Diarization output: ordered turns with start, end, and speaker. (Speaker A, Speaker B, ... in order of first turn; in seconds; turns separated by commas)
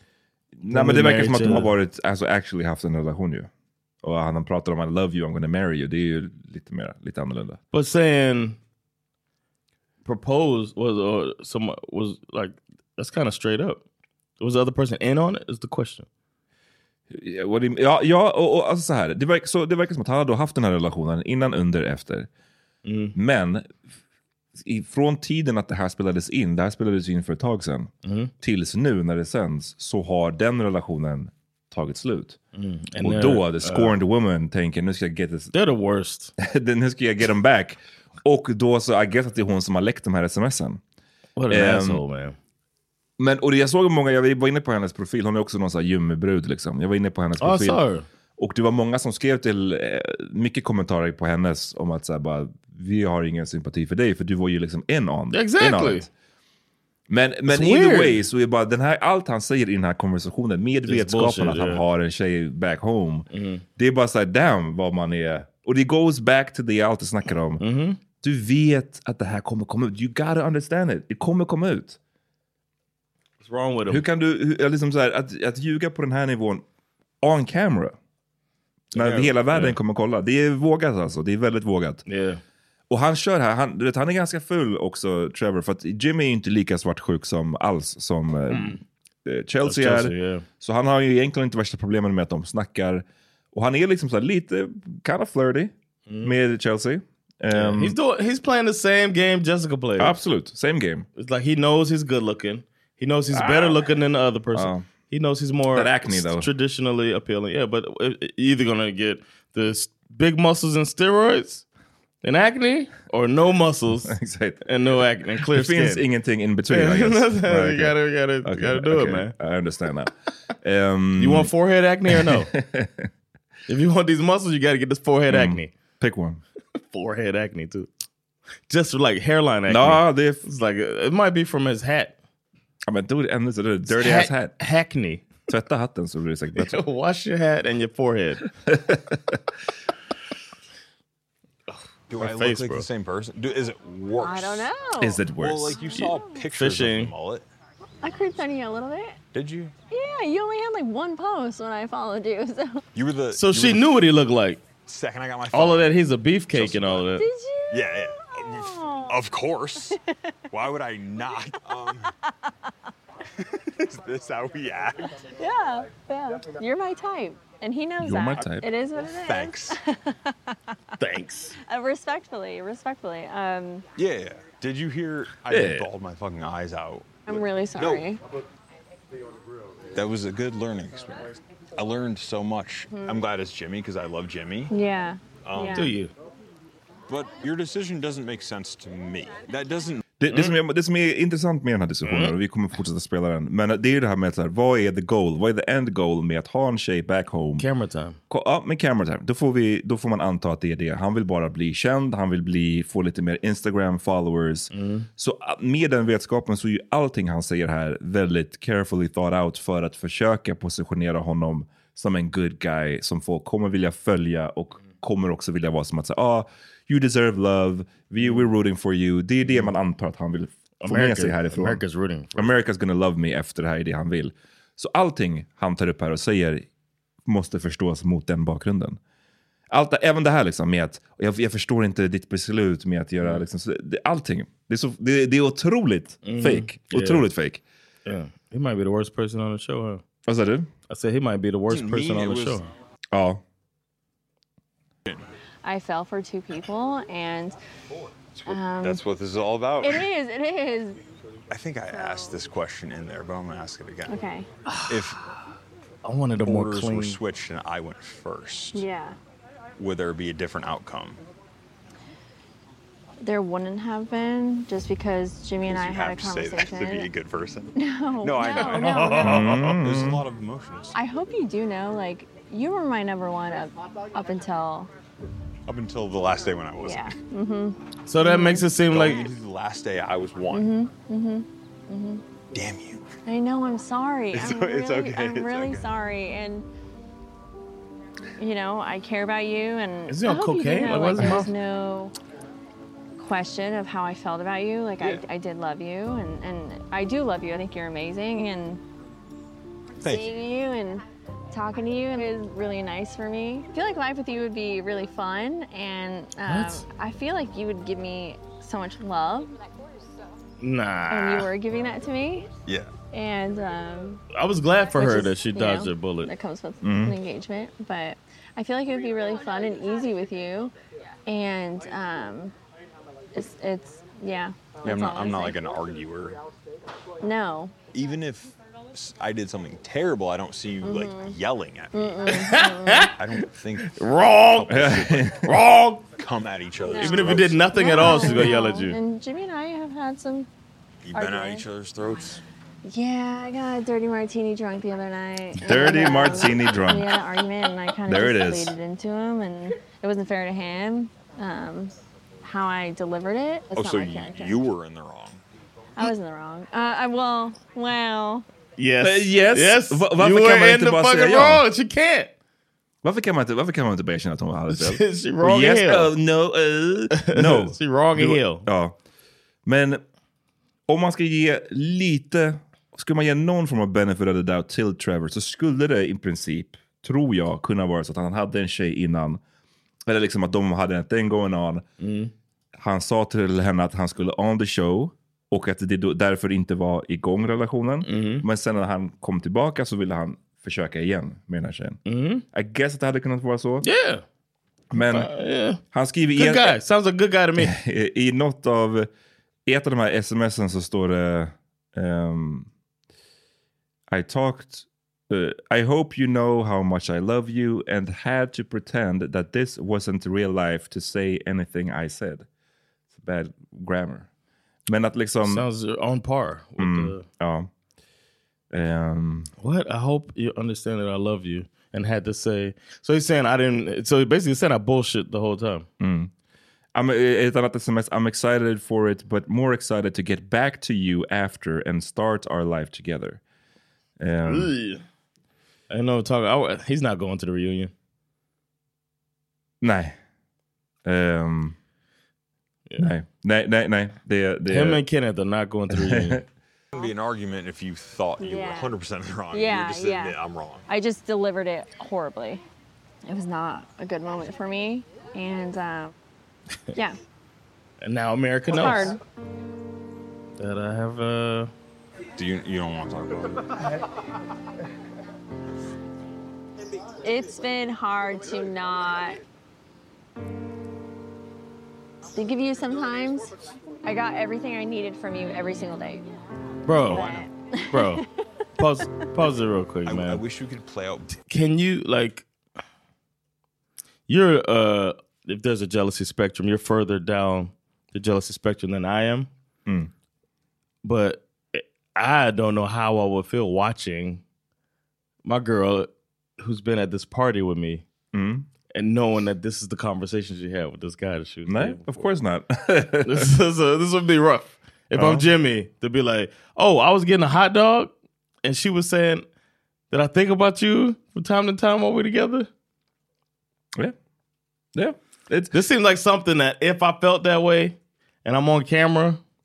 Speaker A: 0.6-3.5, Speaker B: 0.7-1.7, Speaker A: 4.0-7.6, Speaker B: 7.7-8.6, Speaker B: 10.0-13.8, Speaker B: 14.4-16.1, Speaker A: 17.1-22.3, Speaker B: 22.8-23.1, Speaker A: 23.1-23.7, Speaker A: 24.6-32.4, Speaker B: 28.0-28.3, Speaker B: 32.5-33.9, Speaker A: 33.0-35.5, Speaker B: 35.5-36.3, Speaker A: 36.4-40.8, Speaker B: 41.4-42.4, Speaker A: 41.5-42.0, Speaker A: 43.2-47.8, Speaker B: 47.4-48.0, Speaker A: 48.4-56.1, Speaker B: 55.3-56.1, Speaker A: 57.1-67.6, Speaker B: 57.5-58.2, Speaker B: 60.9-61.8, Speaker B: 63.3-63.6, Speaker B: 67.6-68.0, Speaker A: 68.2-72.0, Speaker B: 73.4-74.0, Speaker A: 73.9-76.6, Speaker A: 77.2-78.0, Speaker B: 78.9-79.8, Speaker A: 78.9-82.0, Speaker B: 82.1-82.4, Speaker A: 82.9-95.7, Speaker B: 88.5-88.8, Speaker B: 89.6-90.4, Speaker B: 96.1-96.3, Speaker A: 96.2-98.0, Speaker B: 97.5-100.1, Speaker A: 100.0-101.1, Speaker B: 101.2-111.6, Speaker A: 103.3-103.9, Speaker A: 104.5-104.8, Speaker A: 105.7-106.5, Speaker B: 112.2-114.1, Speaker A: 114.1-114.6, Speaker B: 114.6-116.0, Speaker A: 115.4-121.5, Speaker B: 116.7-119.3, Speaker B: 121.2-122.5, Speaker A: 122.1-123.1, Speaker B: 123.7-125.7, Speaker A: 125.3-126.4, Speaker B: 126.9-127.9, Speaker B: 128.7-132.1, Speaker A: 129.7-130.4, Speaker A: 132.9-134.5, Speaker B: 133.9-135.3, Speaker A: 135.5-136.8, Speaker B: 136.5-138.4, Speaker A: 138.7-139.4, Speaker B: 141.7-142.9, Speaker C: 142.1-144.7, Speaker D: 144.2-146.3, Speaker A: 145.0-145.8, Speaker C: 145.4-147.4, Speaker B: 146.5-147.1, Speaker D: 148.0-149.2, Speaker C: 149.3-149.7, Speaker D: 149.9-152.8, Speaker C: 152.9-153.9, Speaker B: 153.3-154.6, Speaker C: 154.8-155.9, Speaker B: 155.5-157.2, Speaker C: 156.5-157.1, Speaker D: 157.2-159.2, Speaker C: 157.7-160.0, Speaker C: 160.5-162.1, Speaker C: 163.4-165.2, Speaker D: 165.4-170.3, Speaker A: 168.0-168.7, Speaker C: 169.0-169.8, Speaker B: 171.0-171.5, Speaker D: 171.7-173.8, Speaker C: 174.0-178.0, Speaker A: 175.5-175.9, Speaker D: 177.3-178.2, Speaker C: 179.9-184.7, Speaker D: 184.7-185.9, Speaker C: 185.4-185.9, Speaker B: 185.7-186.1, Speaker C: 187.1-190.0, Speaker A: 190.2-197.7, Speaker B: 190.3-190.6, Speaker B: 192.0-192.3, Speaker B: 197.6-198.2, Speaker A: 198.3-221.8, Speaker B: 204.7-205.1, Speaker B: 218.2-218.5, Speaker B: 219.4-219.7, Speaker B: 220.8-222.5, Speaker A: 222.3-226.6, Speaker A: 227.2-229.0, Speaker A: 229.7-237.6, Speaker B: 233.2-233.4, Speaker B: 236.2-237.2, Speaker B: 238.1-240.0, Speaker A: 240.2-240.7, Speaker B: 240.9-242.7, Speaker C: 241.7-242.6, Speaker A: 243.1-243.4, Speaker D: 245.6-247.6, Speaker D: 248.4-249.0, Speaker C: 248.4-250.1, Speaker D: 249.8-251.0, Speaker C: 251.5-254.2, Speaker D: 251.9-252.2, Speaker D: 254.1-254.5, Speaker B: 254.7-255.0, Speaker C: 254.9-255.2, Speaker B: 256.0-257.2, Speaker C: 256.4-258.9, Speaker D: 258.7-259.2, Speaker C: 259.8-261.2, Speaker D: 263.2-267.1, Speaker C: 265.6-271.0, Speaker D: 267.7-269.5, Speaker A: 269.1-270.2, Speaker D: 270.9-274.9, Speaker C: 275.7-277.1, Speaker D: 276.8-278.6, Speaker B: 278.1-279.3, Speaker C: 278.9-280.8, Speaker D: 280.5-282.2, Speaker C: 282.5-283.0, Speaker D: 283.2-286.6, Speaker C: 284.3-285.9, Speaker D: 288.4-292.1, Speaker B: 290.1-291.5, Speaker D: 293.2-298.8, Speaker C: 300.0-300.3, Speaker D: 300.0-309.5, Speaker B: 306.4-306.9, Speaker B: 310.6-311.5, Speaker D: 311.1-312.5, Speaker C: 312.6-312.9, Speaker D: 313.1-314.2, Speaker B: 314.3-316.3, Speaker D: 314.9-320.7, Speaker A: 316.8-317.1, Speaker D: 321.3-322.5, Speaker D: 323.3-325.6, Speaker C: 324.8-326.4, Speaker D: 327.2-327.7, Speaker C: 327.9-332.3, Speaker D: 330.8-331.4, Speaker D: 331.9-333.1, Speaker B: 332.3-333.1, Speaker C: 333.2-335.3, Speaker B: 333.8-336.0, Speaker A: 334.7-335.5, Speaker C: 336.2-338.4, Speaker D: 336.8-340.5, Speaker B: 336.9-339.0, Speaker C: 341.0-342.4, Speaker D: 341.1-341.6, Speaker D: 342.8-354.6, Speaker A: 345.6-347.2, Speaker A: 348.1-348.7, Speaker C: 353.7-355.4, Speaker D: 356.0-358.4, Speaker B: 358.8-362.3, Speaker A: 359.0-361.6, Speaker A: 363.0-368.9, Speaker B: 364.7-366.1, Speaker B: 367.1-368.7, Speaker A: 369.6-370.0, Speaker A: 370.9-379.4, Speaker A: 380.1-381.8, Speaker B: 382.0-382.3, Speaker A: 382.8-393.9, Speaker B: 388.0-388.4, Speaker B: 392.1-392.4, Speaker B: 393.8-394.2, Speaker A: 394.9-395.3, Speaker B: 394.9-395.8, Speaker A: 395.9-396.8, Speaker B: 396.4-397.7, Speaker A: 397.6-399.1, Speaker A: 399.6-402.7, Speaker A: 404.1-412.4, Speaker A: 413.1-414.3, Speaker A: 414.9-415.6, Speaker B: 415.4-417.2, Speaker A: 416.8-417.7, Speaker A: 418.7-419.5, Speaker B: 419.6-425.9, Speaker A: 426.0-426.3, Speaker A: 426.9-433.4, Speaker A: 434.2-434.7, Speaker B: 434.5-435.0, Speaker B: 435.9-437.9, Speaker A: 439.8-440.1, Speaker A: 441.1-441.8, Speaker A: 443.0-445.0, Speaker B: 444.7-446.4, Speaker A: 445.9-446.4, Speaker C: 446.9-450.8, Speaker D: 448.4-448.9, Speaker D: 449.5-452.6, Speaker D: 453.2-456.1, Speaker B: 458.0-459.1, Speaker D: 458.7-459.2, Speaker B: 460.6-461.7, Speaker C: 462.4-463.7, Speaker D: 467.2-469.4, Speaker D: 472.3-476.2, Speaker B: 476.9-478.2, Speaker D: 477.0-478.2, Speaker B: 478.8-480.4, Speaker C: 480.0-481.3, Speaker B: 481.5-482.4, Speaker B: 484.3-489.5, Speaker B: 491.0-494.4, Speaker B: 495.4-498.0, Speaker A: 498.3-498.7, Speaker B: 498.9-502.3, Speaker A: 501.7-503.5, Speaker B: 503.2-508.1, Speaker A: 505.1-505.4, Speaker B: 508.6-509.4, Speaker B: 510.1-512.7, Speaker A: 514.9-515.7, Speaker B: 515.7-519.4